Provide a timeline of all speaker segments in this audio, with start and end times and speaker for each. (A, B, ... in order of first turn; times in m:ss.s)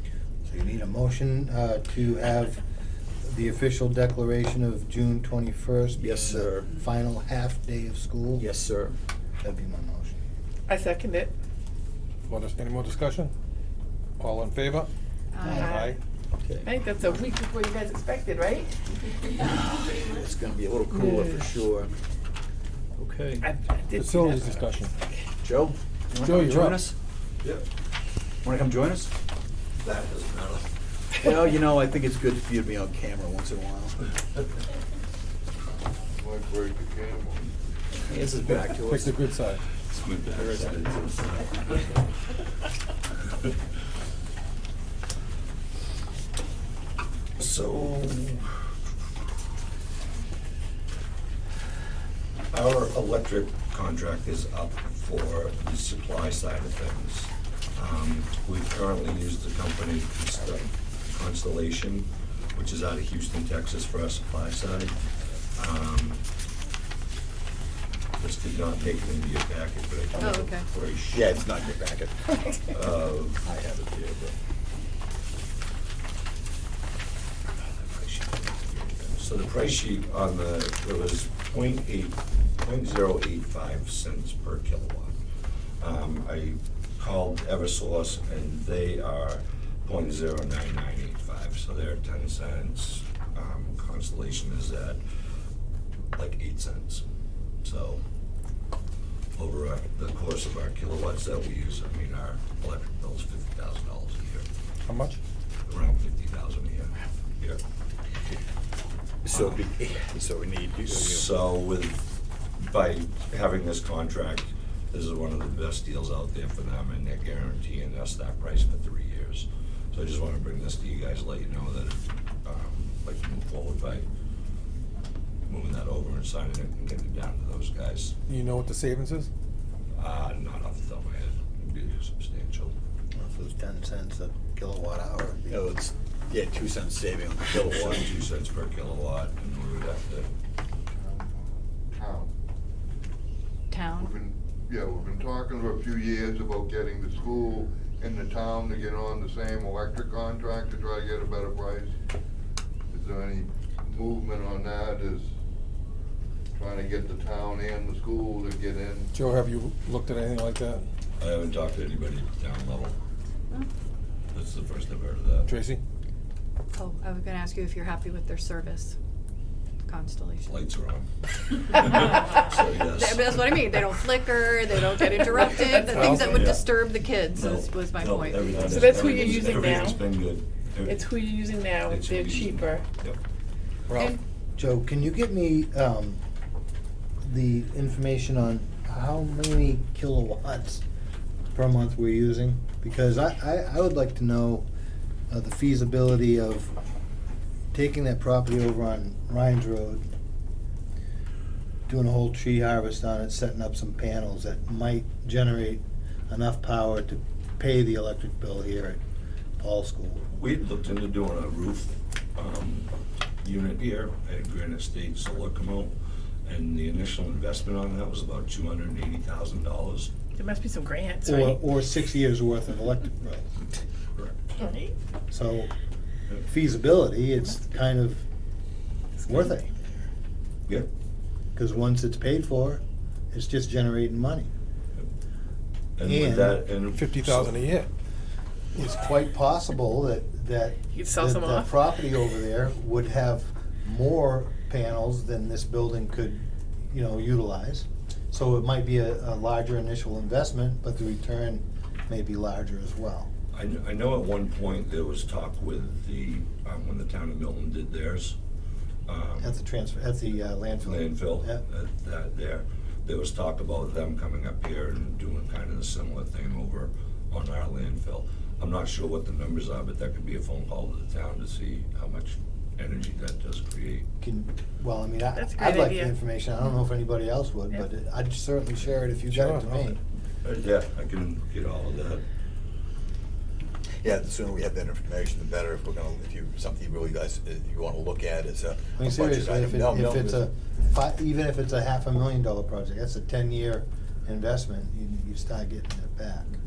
0:00.4-0:02.6 A
0:03.2-0:08.4 A
0:06.0-0:06.7 B
0:08.4-0:08.9 B
0:09.4-0:10.2 A
0:10.7-0:11.3 C
0:12.3-0:13.3 D
0:14.2-0:14.9 D
0:15.3-0:15.6 E
0:15.4-0:16.0 C
0:15.4-0:16.0 D
0:16.4-0:16.7 B
0:16.6-0:18.7 C
0:19.4-0:21.9 B
0:20.9-0:21.4 C
0:23.0-0:23.4 B
0:23.4-0:24.7 C
0:23.9-0:24.9 D
0:25.4-0:26.9 B
0:26.2-0:26.8 D
0:28.4-0:29.1 B
0:29.8-0:30.7 F
0:31.1-0:34.0 B
0:36.1-0:37.5 G
0:38.1-0:39.2 B
0:38.4-0:39.6 D
0:39.9-0:42.0 F
0:40.4-0:41.0 B
0:47.4-0:48.6 F
0:52.5-1:05.0 F
1:05.6-1:06.2 F
1:08.2-1:11.4 F
1:10.2-1:10.7 E
1:11.1-1:12.7 B
1:12.6-1:13.4 F
1:13.4-1:14.4 B
1:17.6-1:25.2 F
1:25.8-1:35.0 F
1:36.1-1:37.0 F
1:37.6-1:38.0 F
1:39.4-1:44.4 F
1:44.9-1:45.2 D
1:45.7-1:47.6 F
1:49.2-1:51.3 B
1:50.8-1:52.0 F
1:52.6-2:04.0 F
2:05.5-2:08.1 F
2:08.3-2:09.3 D
2:09.9-2:12.7 F
2:13.1-2:15.6 A
2:15.5-2:18.1 B
2:17.5-2:20.3 F
2:20.9-2:22.3 G
2:23.7-2:24.1 E
2:24.0-2:31.9 G
2:32.9-2:35.3 G
2:36.5-2:39.1 G
2:39.1-2:40.9 D
2:41.2-2:43.0 F
2:44.3-2:45.5 F
2:45.4-2:45.8 D
2:46.7-2:49.0 E
2:49.8-2:50.5 E
2:50.4-2:53.9 F
2:52.1-2:59.2 E
2:55.3-2:56.1 C
2:55.9-2:56.5 D
2:55.9-3:01.2 F
2:58.7-3:00.0 C
3:00.8-3:02.8 C
3:01.8-3:03.2 F
3:03.9-3:04.2 D
3:03.9-3:04.2 E
3:04.6-3:06.2 A
3:07.2-3:10.8 A
3:11.5-3:14.7 A
3:15.3-3:16.7 A
3:17.7-3:20.1 A
3:21.9-3:29.0 A
3:29.6-3:30.2 A
3:30.3-3:32.9 F
3:33.4-3:40.1 F
3:40.4-3:41.6 C
3:41.2-3:43.5 A
3:44.5-3:44.9 C
3:45.3-3:45.7 A
3:46.4-3:48.3 A
3:49.2-3:49.7 A
3:51.5-3:54.5 A
3:56.0-3:57.6 F
3:56.0-3:56.6 A
3:56.9-3:57.9 D
3:58.7-4:13.3 A
4:00.9-4:01.7 C
4:13.5-4:18.4 F
4:19.1-4:19.6 F
4:19.4-4:21.6 A
4:20.8-4:34.0 F
4:34.2-4:40.0 A
4:35.3-4:36.2 C
4:39.3-4:39.9 D
4:40.4-4:42.2 F
4:44.0-4:50.5 B
4:49.0-4:56.6 A